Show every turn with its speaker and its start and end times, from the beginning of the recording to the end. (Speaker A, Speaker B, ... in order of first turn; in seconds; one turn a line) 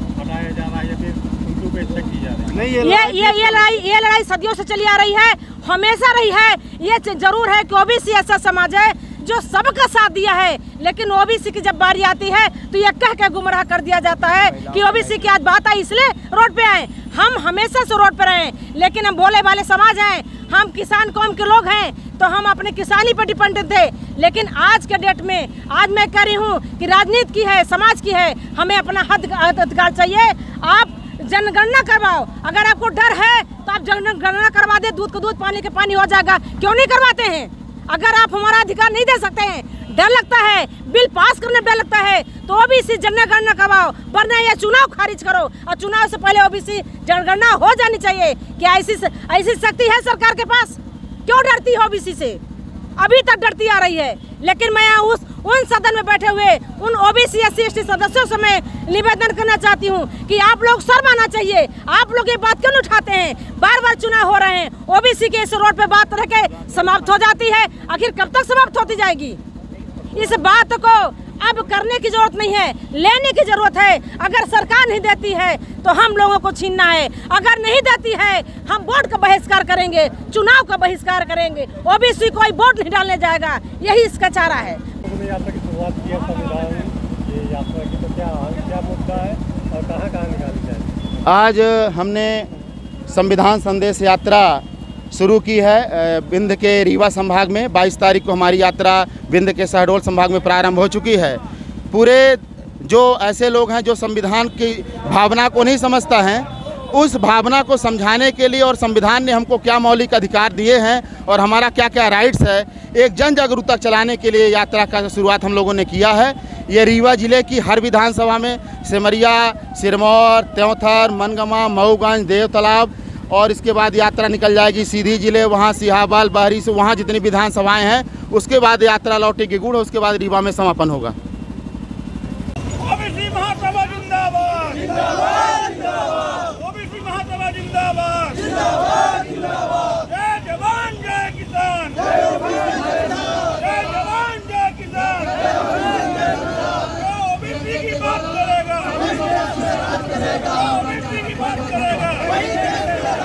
Speaker A: 0.2-2.8
Speaker B: 2.5-3.7
Speaker C: 2.8-52.4
Speaker B: 14.3-15.3
Speaker C: 53.0-69.4
Speaker C: 70.1-84.8
Speaker A: 85.0-91.1
Speaker D: 91.2-92.5
Speaker D: 93.1-131.1
Speaker B: 132.8-135.1
Speaker B: 136.3-138.6
Speaker B: 140.2-142.9
Speaker D: 141.4-141.7
Speaker D: 143.6-144.8
Speaker B: 144.8-145.6
Speaker B: 147.2-152.4